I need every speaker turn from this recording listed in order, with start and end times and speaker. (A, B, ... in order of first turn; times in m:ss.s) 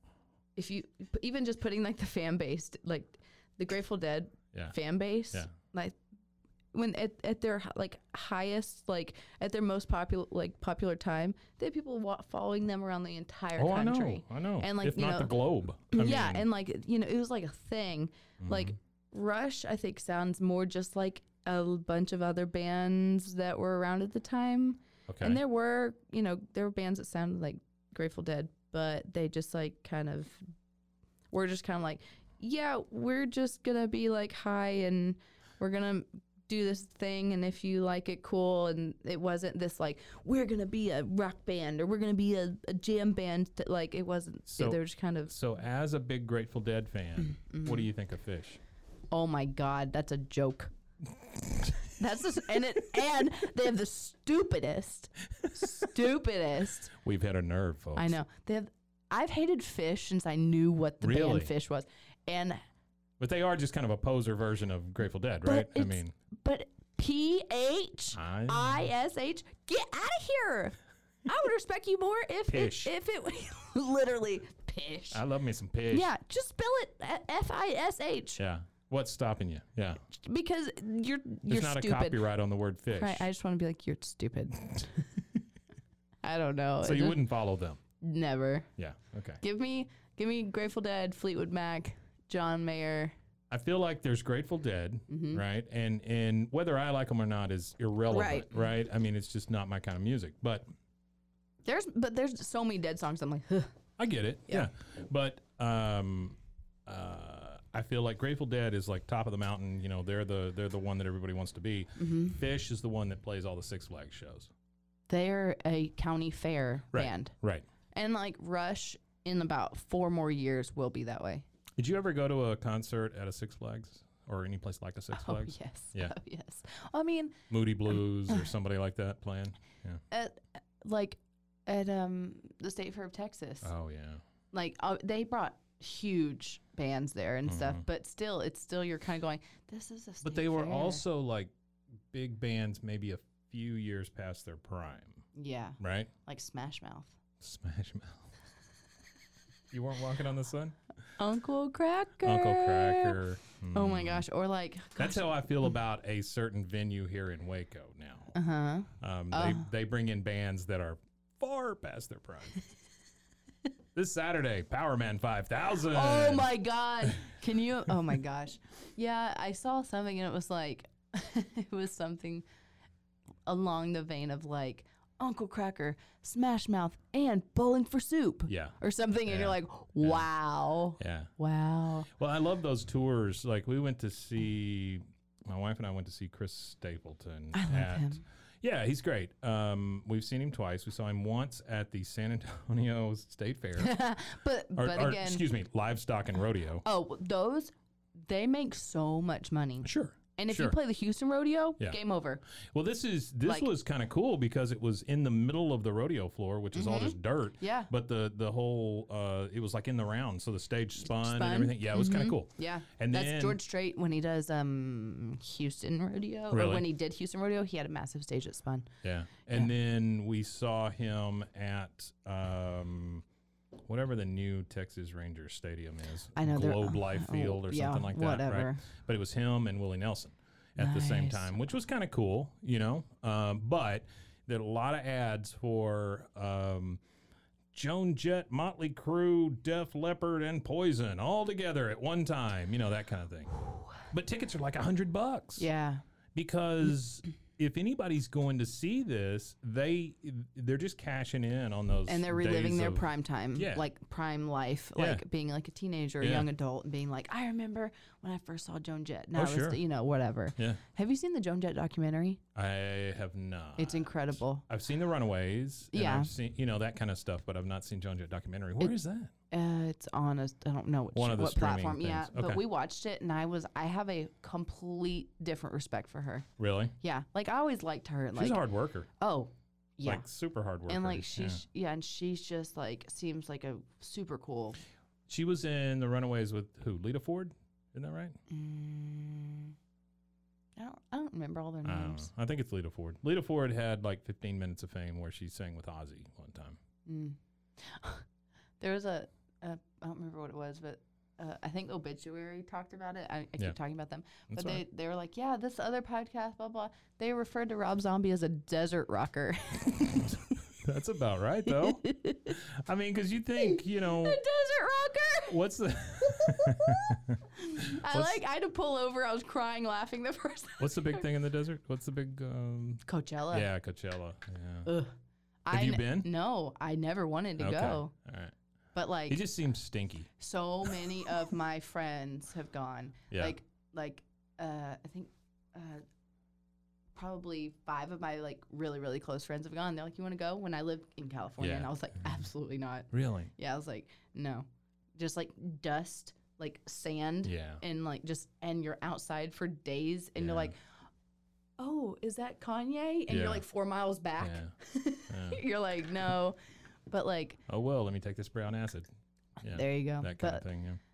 0:00.6-0:06.0 A
0:06.7-0:15.3 A
0:13.6-0:16.4 B
0:15.9-0:30.4 A
0:18.4-0:18.7 B
0:25.1-0:25.4 B
0:31.3-0:45.3 A
0:44.4-0:48.6 B
0:47.2-0:47.9 A
0:49.1-0:50.7 A
0:52.0-0:56.9 A
0:56.9-0:58.2 B
0:58.0-1:02.6 A
1:01.0-1:01.5 B
1:03.2-1:06.1 B
1:05.4-1:10.7 A
1:08.1-1:08.8 B
1:11.2-1:15.2 A
1:12.5-1:12.9 B
1:15.1-1:16.1 B
1:15.9-1:18.4 A
1:18.4-1:20.0 B
1:20.1-1:22.2 A
1:21.5-1:23.3 B
1:22.9-1:24.9 A
1:26.2-1:27.2 A
1:26.8-1:27.8 B
1:28.0-1:28.7 A
1:28.8-1:29.4 B
1:29.4-1:33.1 A
1:33.5-1:40.7 B
1:35.1-1:35.4 A
1:38.1-1:38.5 A
1:41.6-1:43.7 A
1:44.0-1:54.5 B
1:52.0-1:52.4 A
1:55.1-1:57.3 A
1:56.9-1:57.6 B
1:57.9-2:01.4 A
2:01.8-2:06.1 B
2:05.1-2:07.4 A
2:07.5-2:10.0 B
2:10.1-2:13.7 A
2:13.6-2:14.2 B
2:14.5-2:21.0 A
2:17.4-2:17.8 B
2:20.2-2:21.5 B
2:22.1-2:25.2 B
2:25.3-2:27.2 A
2:25.8-2:26.1 B
2:27.4-2:28.2 B
2:29.7-2:30.8 B
2:31.2-2:33.2 A
2:32.2-2:34.2 B
2:33.7-2:35.2 A
2:35.0-2:38.3 B
2:38.3-2:39.6 A
2:39.0-2:42.6 B
2:43.9-2:47.2 B
2:45.9-2:52.4 A
2:53.5-3:02.1 A
2:58.5-3:00.3 B
3:01.0-3:01.3 B
3:02.1-3:13.9 B
3:07.5-3:08.2 A
3:13.8-3:15.4 A
3:14.7-3:16.8 B
3:16.8-3:22.4 A
3:19.8-3:20.8 B
3:22.7-3:33.6 B
3:26.7-3:27.9 A
3:31.0-3:38.9 A
3:36.5-3:36.8 B
3:39.0-3:43.2 B
3:43.8-3:57.0 B
3:46.4-3:48.8 A
3:50.8-3:51.6 A
3:57.7-4:05.6 B
4:05.6-4:06.0 A
4:06.3-4:13.8 B
4:12.1-4:22.4 A
4:15.0-4:15.2 B
4:16.2-4:16.5 B
4:19.3-4:19.8 B
4:22.5-4:29.3 B
4:23.8-4:24.6 A
4:25.9-4:26.3 A
4:29.5-4:36.5 A
4:31.1-4:32.6 B
4:36.6-4:36.9 B
4:37.0-4:38.6 A
4:38.3-4:39.1 B
4:39.2-4:40.2 A
4:40.0-4:41.6 B
4:40.9-4:44.8 A
4:45.3-4:48.4 B
4:48.5-4:49.7 A
4:50.8-4:52.3 A
4:51.8-4:56.8 B
4:57.0-4:58.2 A
4:58.8-5:10.4 A
5:04.5-5:04.8 B
5:10.8-5:14.4 B
5:11.8-5:12.6 A
5:13.6-5:15.6 A
5:15.5-5:18.4 B
5:16.2-5:17.0 A
5:17.6-5:21.2 A
5:20.8-5:24.9 B
5:23.0-5:23.7 A
5:24.8-5:25.1 A
5:25.6-5:28.1 A
5:25.7-5:26.3 B
5:27.6-5:28.5 B
5:28.9-5:29.4 A
5:29.3-5:30.3 B
5:30.4-5:36.0 A
5:33.3-5:33.6 B
5:37.1-5:50.8 A
5:41.6-5:41.9 B
5:43.1-5:43.5 B
5:47.4-5:47.8 B
5:50.4-5:50.7 B
5:51.8-5:56.6 A
5:53.3-5:53.6 B
5:54.4-5:54.7 B
5:55.3-5:55.6 B
5:57.1-5:57.6 A
5:57.7-5:59.1 B
5:59.6-6:01.0 B
5:59.7-6:00.6 A